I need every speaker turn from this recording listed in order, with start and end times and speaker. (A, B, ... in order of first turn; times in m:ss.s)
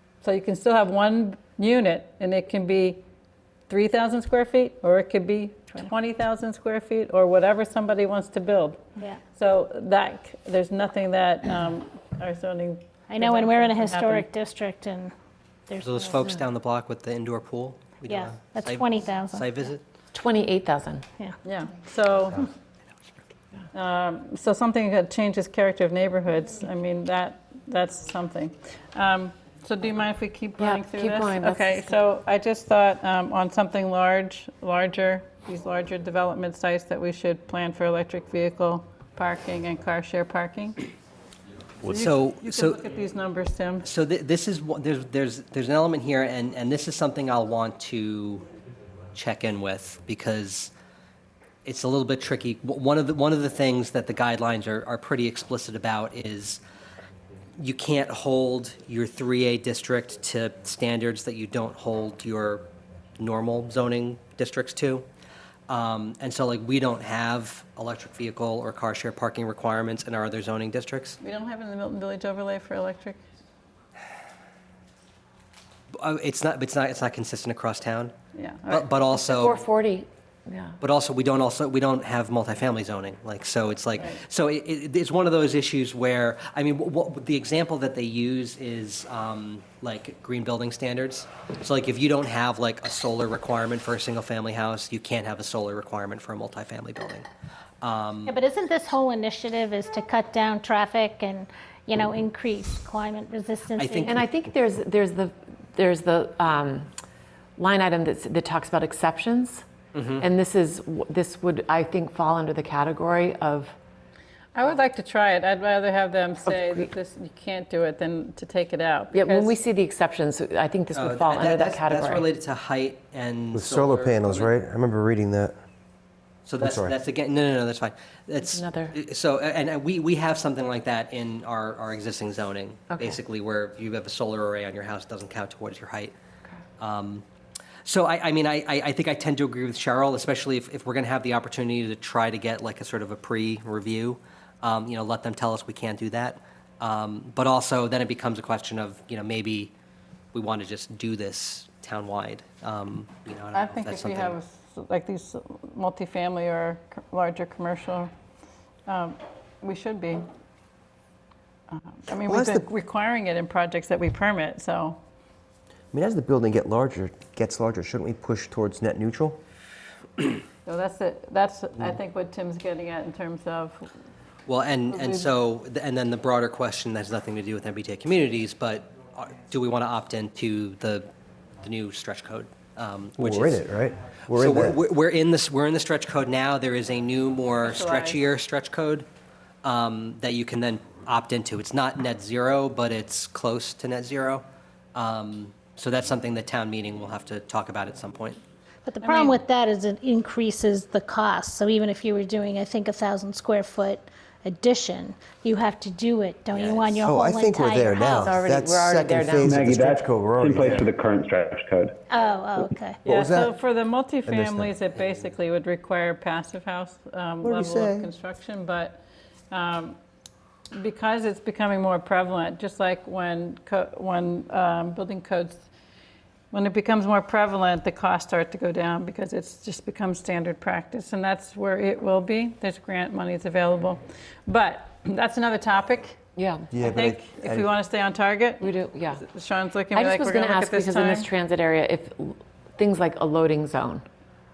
0:00.2-0:03.0 A
0:03.7-0:08.8 A
0:09.3-0:14.3 A
0:13.1-0:15.1 B
0:15.7-0:16.3 B
0:15.8-0:19.8 C
0:18.0-0:19.7 B
0:20.1-0:21.0 D
0:21.4-0:22.5 A
0:23.7-0:40.8 A
0:30.6-0:32.0 D
0:41.8-0:43.9 A
0:41.9-0:42.8 C
0:43.8-0:48.5 C
0:49.1-0:50.7 C
0:51.6-0:56.6 C
0:57.6-1:02.6 C
1:03.2-1:05.0 C
1:05.7-1:11.2 C
1:11.2-1:13.2 A
1:16.0-1:18.1 C
1:18.3-1:18.9 A
1:18.7-1:19.6 C
1:19.1-1:20.8 D
1:20.8-1:37.3 C
1:37.8-1:38.3 C
1:38.2-1:44.1 B
1:43.7-1:44.3 C
1:44.0-1:46.9 D
1:47.6-1:49.6 D
1:49.9-1:50.2 C
1:50.2-1:53.7 D
1:54.5-1:59.6 A
1:59.1-2:02.3 D
2:00.9-2:04.5 C
2:03.5-2:05.6 E
2:06.4-2:16.1 C
2:06.6-2:06.9 E
2:08.4-2:08.9 D
2:16.8-2:17.2 C
2:17.8-2:29.7 C
2:30.3-2:34.4 C
2:33.5-2:38.1 A
2:38.9-2:40.3 A
2:41.7-2:45.0 A
2:42.3-2:42.6 E
2:45.9-2:49.4 E
2:50.6-2:53.9 A
2:54.4-3:01.1 C
2:54.9-2:55.2 A
3:01.6-3:03.6 C
3:03.2-3:04.8 E
3:04.3-3:09.1 C
3:07.6-3:08.2 A
3:09.6-3:18.4 C
3:18.8-3:28.3 B
3:19.0-3:19.4 A
3:26.5-3:27.0 C
3:27.0-3:30.9 E
3:28.2-3:29.6 D
3:29.4-3:32.0 F
3:32.1-3:33.0 B
3:33.0-3:40.0 A
3:33.0-3:33.5 E
3:34.2-3:34.7 E
3:37.4-3:38.1 E
3:40.7-3:45.6 A
3:46.5-3:56.2 A
3:56.4-3:56.7 D
3:56.7-3:57.7 E
3:56.8-4:01.3 A
3:58.6-3:59.2 D
3:59.9-4:04.0 D